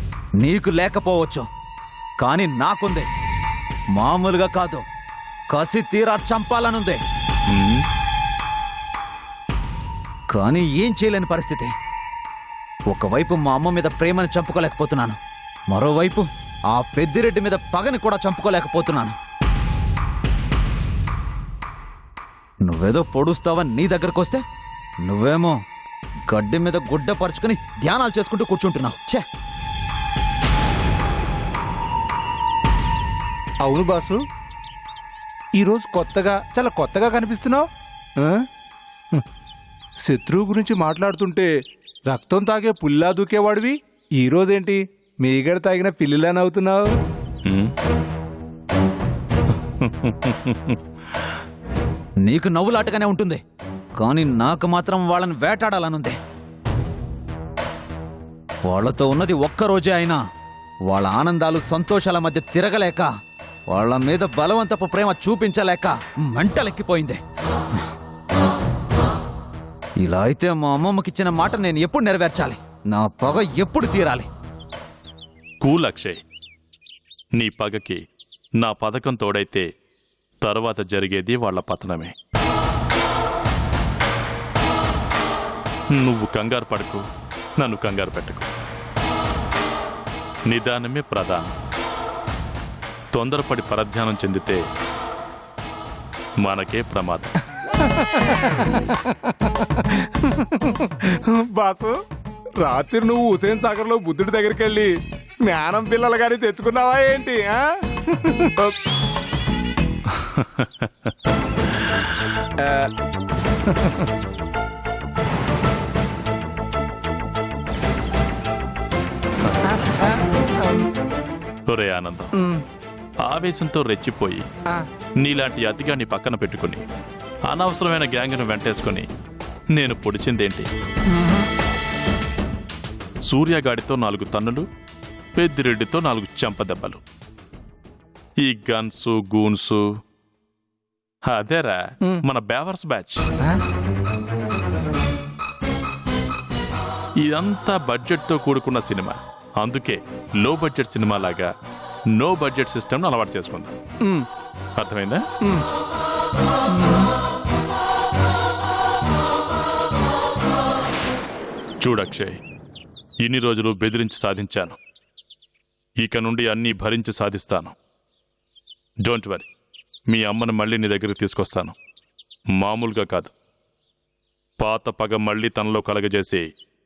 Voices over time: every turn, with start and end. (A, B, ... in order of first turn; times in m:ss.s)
0:00.4-0:01.5 A
0:02.2-0:03.1 A
0:03.9-0:04.8 A
0:05.5-0:07.0 A
0:07.5-0:07.8 B
0:10.3-0:11.7 A
0:12.9-0:15.2 A
0:15.7-0:19.2 A
0:22.6-0:24.4 A
0:25.0-0:25.6 A
0:26.3-0:29.2 A
0:33.6-0:34.2 C
0:35.6-0:37.6 C
0:38.2-0:38.5 C
0:40.0-0:41.5 C
0:42.1-0:46.9 C
0:47.5-0:47.7 B
0:49.8-0:50.8 B
0:52.2-0:53.4 A
0:54.0-0:56.2 A
0:58.6-1:00.2 A
1:00.9-1:03.1 A
1:03.7-1:07.2 A
1:10.0-1:14.3 A
1:15.6-1:16.2 B
1:17.4-1:18.0 B
1:18.6-1:19.7 B
1:20.4-1:22.1 B
1:25.9-1:27.0 B
1:27.6-1:28.5 B
1:30.5-1:31.5 B
1:33.1-1:34.6 B
1:36.4-1:37.3 B
1:37.8-1:42.0 C
1:42.6-1:44.9 C
1:45.5-1:48.8 C
1:50.1-1:51.1 B
1:52.6-1:52.9 C
1:59.7-2:00.1 C
2:01.7-2:02.3 B
2:03.3-2:04.4 B
2:05.2-2:06.8 B
2:07.5-2:09.1 B
2:09.8-2:10.7 B
2:11.1-2:11.4 C
2:13.3-2:14.7 B
2:15.4-2:17.0 B
2:18.4-2:19.8 B
2:21.3-2:23.2 B
2:27.2-2:31.5 B
2:32.2-2:33.8 B
2:34.8-2:35.2 B
2:36.7-2:37.1 C
2:41.8-2:42.4 B
2:43.2-2:44.8 B
2:46.0-2:47.7 B
2:49.1-2:49.5 B
2:50.1-2:51.8 B
2:52.6-2:53.3 B
2:54.6-2:56.5 B